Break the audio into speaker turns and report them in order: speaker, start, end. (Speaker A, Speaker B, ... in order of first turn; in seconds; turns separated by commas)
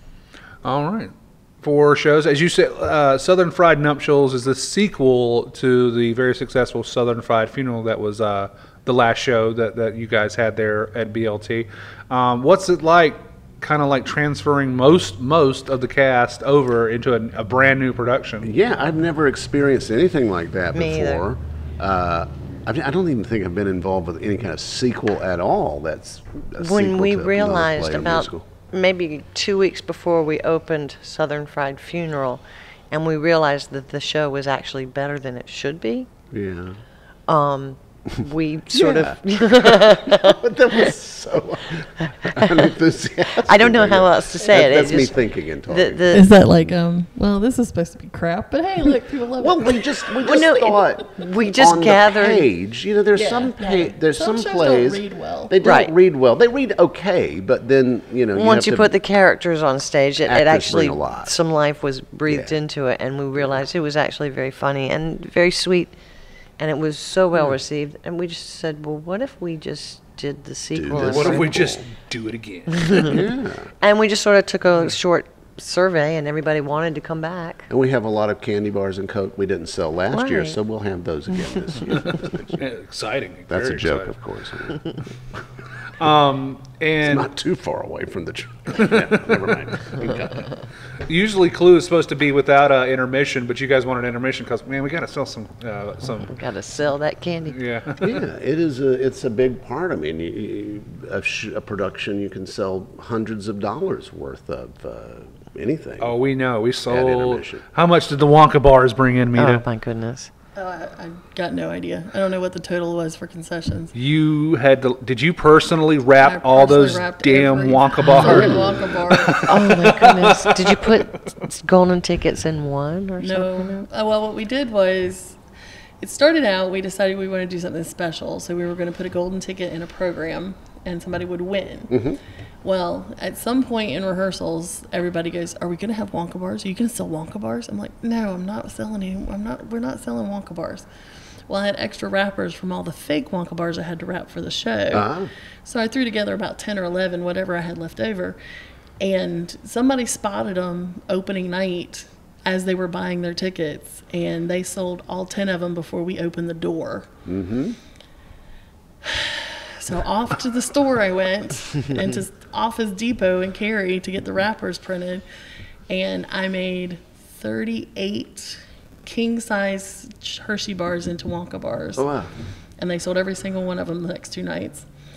Speaker A: 0.6-18.5, Speaker B: 18.4-28.5, Speaker C: 20.7-21.2, Speaker C: 26.6-36.1, Speaker B: 36.3-36.8, Speaker C: 37.3-40.4, Speaker B: 38.7-46.1, Speaker C: 42.2-42.7, Speaker C: 43.4-46.3, Speaker D: 46.1-50.1, Speaker B: 49.4-58.9, Speaker C: 50.2-52.5, Speaker D: 53.1-55.5, Speaker C: 55.6-55.9, Speaker C: 58.3-65.9, Speaker B: 60.2-61.3, Speaker B: 62.3-62.5, Speaker C: 66.6-71.6, Speaker B: 70.7-71.8, Speaker A: 71.0-73.1, Speaker C: 72.8-73.2, Speaker B: 73.0-73.7, Speaker C: 73.8-77.7, Speaker B: 77.7-82.6, Speaker C: 80.1-80.6, Speaker A: 82.6-84.2, Speaker B: 83.5-85.1, Speaker A: 86.0-87.3, Speaker B: 87.0-90.5, Speaker A: 88.8-89.3, Speaker A: 91.0-96.3, Speaker C: 96.3-97.6, Speaker A: 97.5-98.1, Speaker B: 98.0-106.1, Speaker A: 106.0-109.6, Speaker B: 106.9-107.6, Speaker C: 109.3-110.3, Speaker D: 110.5-113.9, Speaker A: 113.9-118.6, Speaker D: 116.2-119.7, Speaker C: 118.0-118.5, Speaker A: 119.1-121.0, Speaker C: 119.3-123.8, Speaker D: 123.2-125.4, Speaker D: 126.0-132.1, Speaker B: 131.9-132.2, Speaker D: 132.6-140.8, Speaker D: 141.5-145.1, Speaker B: 144.9-145.3, Speaker D: 145.6-148.4, Speaker D: 149.0-157.1, Speaker B: 157.2-157.8, Speaker D: 159.0-165.2, Speaker D: 165.9-172.1, Speaker B: 171.9-172.3, Speaker D: 172.8-174.8